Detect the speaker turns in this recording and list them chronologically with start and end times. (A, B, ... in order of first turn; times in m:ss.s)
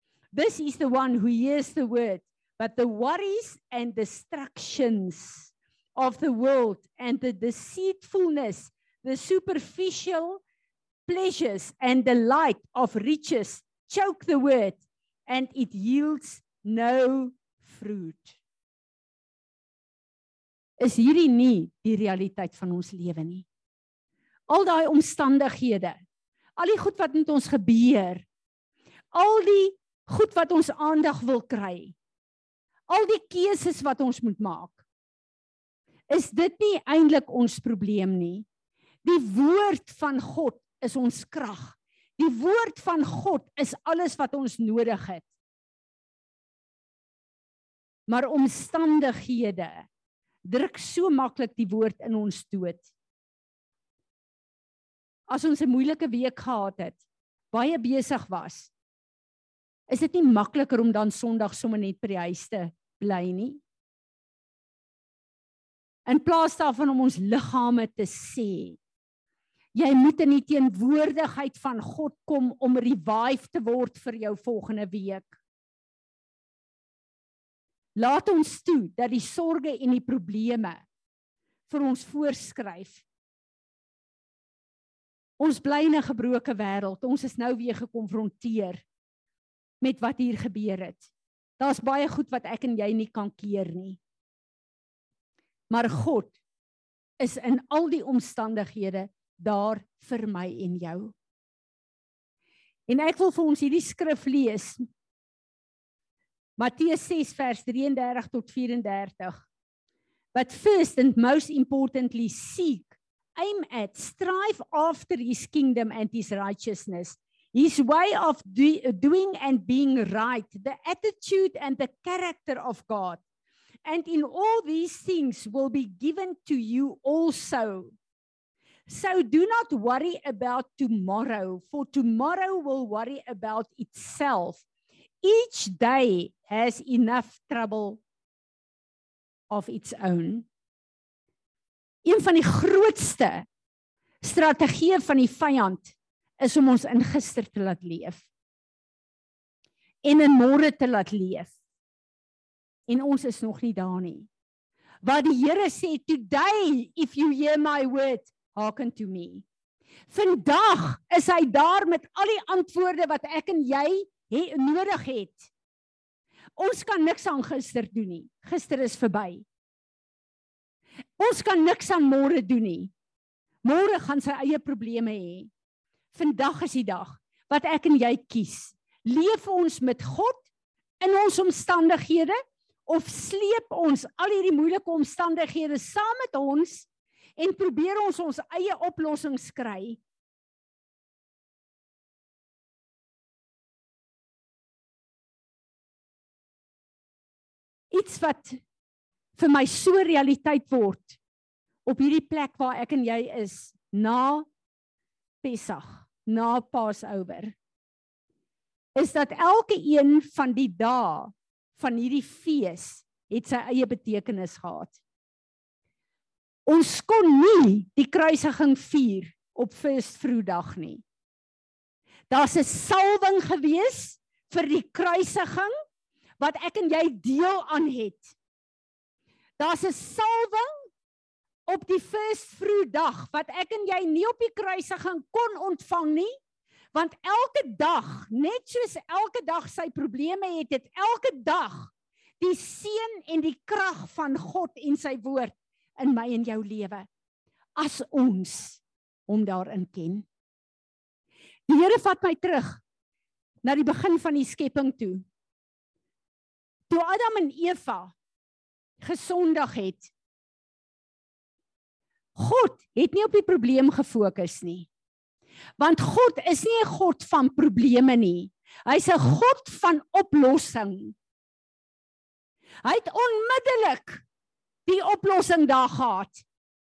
0:00.3-0:10.4 A
0:11.1-0:18.4 A
0:20.8-0:23.4 A
0:24.5-0:26.0 A
0:26.6-0:28.2 A
0:29.1-0:31.9 A
0:32.9-0:34.8 A
0:36.1-0:38.4 A
0:39.0-0:45.3 A
0:48.1-0:49.9 A
0:50.4-0:52.9 A
0:55.3-0:58.7 A
0:59.9-1:03.6 A
1:06.0-1:08.8 A
1:09.7-1:15.3 A
1:18.0-1:20.8 A
1:21.7-1:23.0 A
1:25.4-1:28.8 A
1:29.8-1:31.1 A
1:31.6-1:34.0 A
1:35.7-1:36.4 A
1:37.2-1:41.1 A
1:42.9-1:44.9 A
1:46.6-1:49.4 A
1:50.3-2:03.2 A
2:03.8-2:07.9 A
2:08.9-2:14.6 A
2:15.2-2:18.0 A
2:19.5-2:20.4 A
2:22.0-2:23.4 A
2:24.2-2:28.3 A
2:30.0-2:31.5 A
2:32.9-2:34.3 A
2:35.0-2:39.4 A
2:40.1-2:45.5 A
2:46.6-2:49.4 A
2:51.2-2:52.9 A
2:53.6-2:55.5 A
2:56.1-3:00.4 A
3:01.0-3:10.0 A
3:17.9-3:18.6 A
3:19.3-3:21.2 A
3:21.8-3:24.5 A
3:25.4-3:27.5 A
3:28.9-3:35.0 A
3:36.6-3:41.0 A
3:42.3-3:45.7 A
3:46.4-3:48.3 A
3:49.6-3:50.8 A
3:51.7-3:56.3 A
3:56.9-4:07.1 A
4:07.8-4:10.2 A
4:11.7-4:12.8 A
4:13.6-4:15.2 A
4:16.9-4:18.1 A
4:19.0-4:20.1 A
4:22.4-4:24.9 A
4:25.8-4:31.2 A
4:32.8-4:34.2 A
4:34.8-4:36.4 A